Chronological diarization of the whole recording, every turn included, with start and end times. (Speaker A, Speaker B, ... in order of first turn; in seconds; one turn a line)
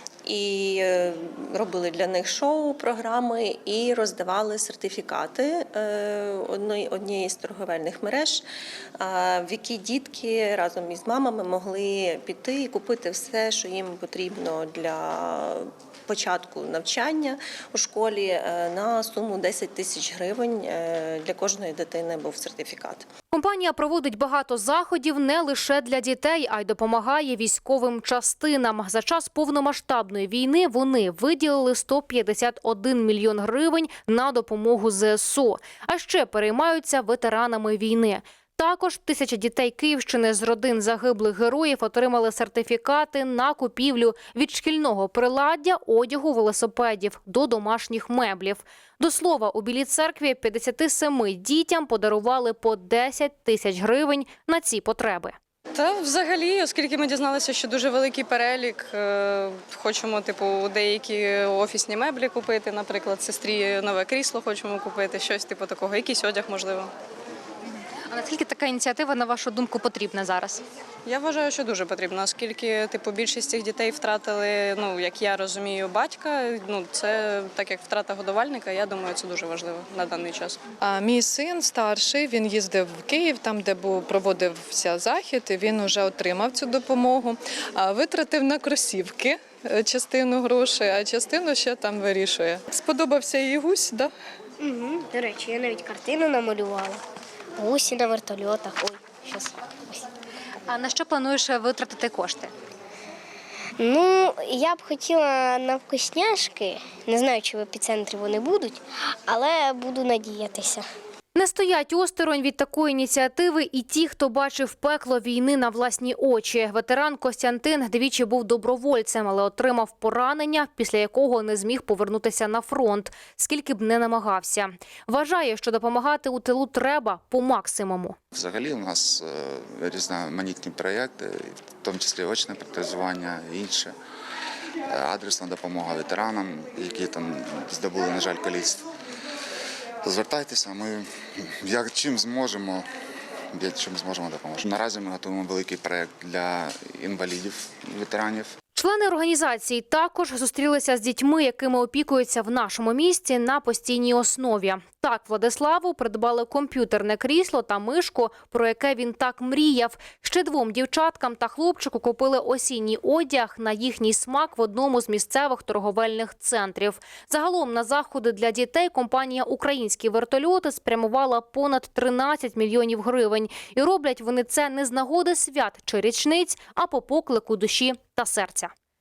Speaker A: 0.2-8.4
Speaker A: 9.0-23.1
Speaker B: 23.3-55.4
Speaker C: 55.8-66.9
Speaker B: 68.0-70.6
Speaker C: 71.0-80.6
Speaker D: 80.8-94.1
Speaker E: 94.6-97.0
Speaker E: 97.6-100.0
Speaker B: 100.7-102.5
Speaker E: 103.8-110.8
Speaker B: 111.3-128.2
Speaker F: 128.3-133.9
Speaker F: 134.8-138.8
Speaker F: 140.0-142.9
Speaker F: 143.5-148.5
Speaker B: 148.7-178.7